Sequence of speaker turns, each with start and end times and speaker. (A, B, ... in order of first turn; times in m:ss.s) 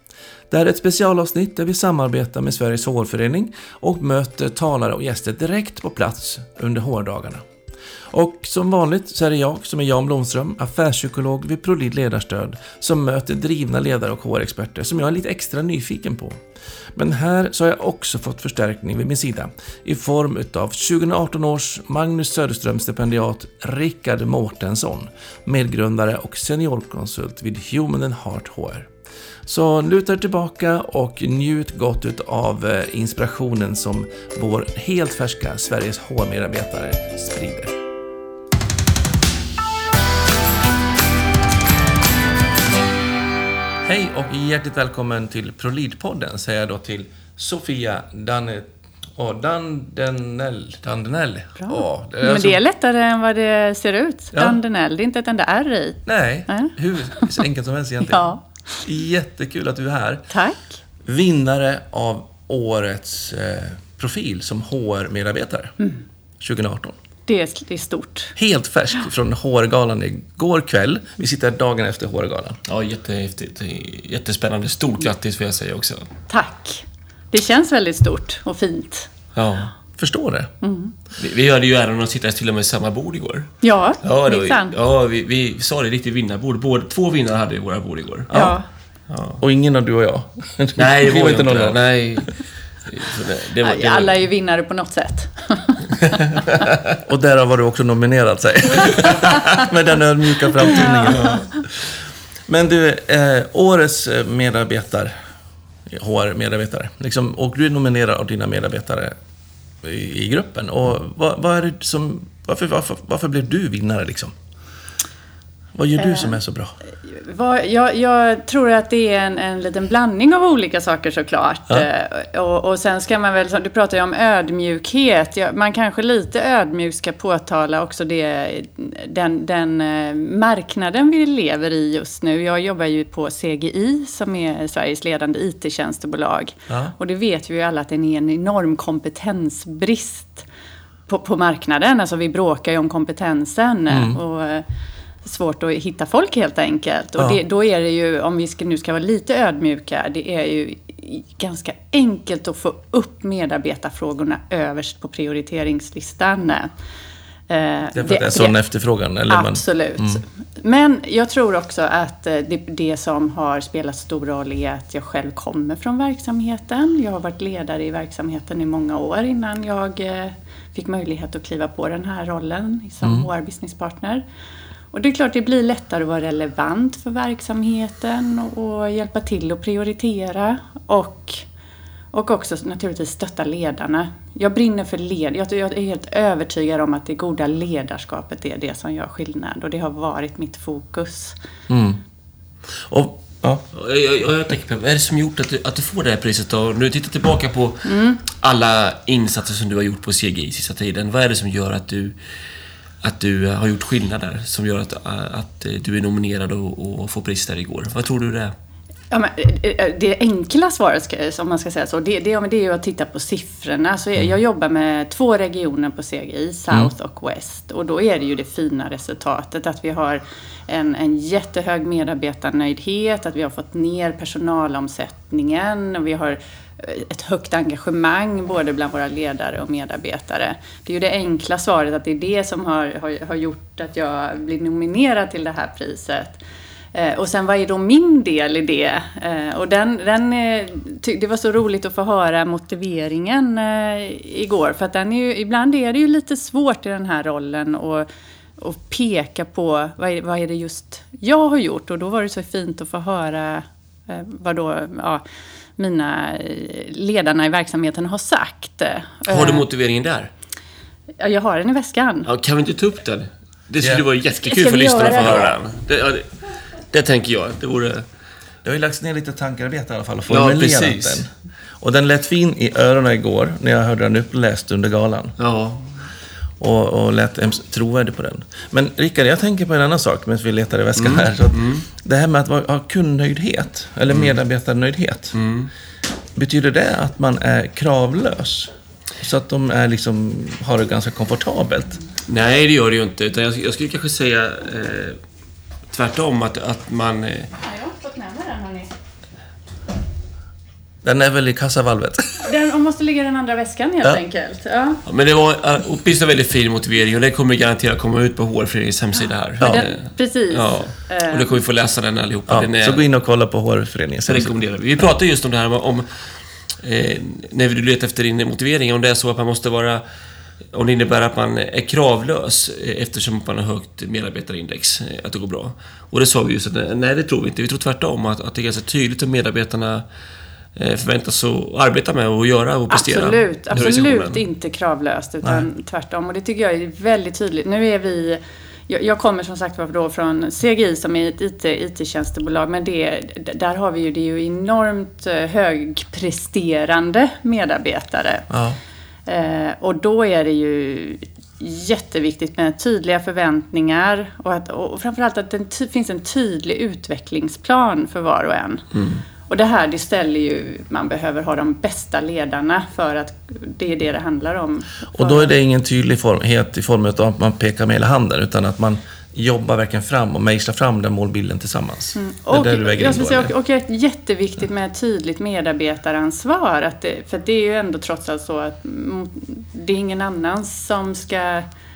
0:00.5-0:07.4 A
0:08.1-0:16.4 A
0:17.0-0:28.9 A
0:29.5-0:37.7 A
0:43.8-0:52.6 A
0:51.6-0:57.4 B
0:56.0-1:00.3 A
0:58.0-0:58.4 B
1:00.3-1:00.8 B
1:01.1-1:05.7 A
1:06.4-1:07.0 A
1:07.3-1:08.4 B
1:08.4-1:12.6 A
1:12.7-1:16.1 C
1:16.3-1:19.1 B
1:19.4-1:19.7 C
1:20.0-1:20.5 A
1:20.6-1:21.0 B
1:21.2-1:23.5 C
1:23.6-1:24.8 B
1:24.0-1:28.3 C
1:28.3-1:28.6 A
1:28.3-1:28.7 B
1:29.1-1:29.4 C
1:29.4-1:31.8 A
1:30.8-1:34.2 C
1:33.6-1:36.2 B
1:37.0-1:41.4 A
1:40.7-1:41.5 C
1:42.5-1:45.1 A
1:45.9-1:49.1 A
1:49.8-1:54.3 A
1:55.8-1:56.7 A
1:56.0-1:56.4 B
1:57.1-2:20.5 B
2:16.7-2:16.9 A
2:21.1-2:24.6 B
2:23.9-2:24.2 A
2:25.2-2:36.7 B
2:37.5-2:38.6 B
2:38.0-2:40.2 A
2:39.3-2:54.2 B
2:54.9-3:01.4 B
3:02.1-3:11.4 B
3:11.7-3:12.0 A
3:12.8-3:13.6 A
3:13.7-3:22.2 C
3:17.8-3:18.2 B
3:23.0-3:28.5 C
3:29.1-3:56.4 B
3:56.9-4:08.1 B
4:08.6-4:15.2 B
4:15.8-4:19.7 B
4:19.3-4:20.3 C
4:21.2-4:22.3 B
4:22.3-4:26.3 C
4:24.4-4:25.6 B
4:26.9-4:28.0 C
4:28.6-4:31.3 A
4:30.3-4:31.2 C
4:31.8-4:35.4 A
4:35.4-4:35.8 C
4:36.6-4:45.4 A
4:41.0-4:41.8 C
4:44.1-4:44.4 C
4:45.3-4:45.7 C
4:46.4-4:52.0 A
4:52.3-4:55.2 C
4:55.9-4:57.5 C
4:57.6-4:58.9 B
5:01.0-5:02.4 A
5:02.4-5:05.0 B
5:05.1-5:13.0 C
5:09.6-5:11.6 B
5:09.6-5:09.9 A
5:12.5-5:14.5 A
5:14.3-5:16.1 C
5:16.8-5:20.0 C
5:20.7-5:30.0 C
5:30.8-5:34.4 C
5:32.9-5:48.5 B
5:48.5-5:48.8 A
5:49.3-5:58.8 B
5:59.5-6:05.5 B
6:05.1-6:13.5 A
6:12.2-6:21.7 B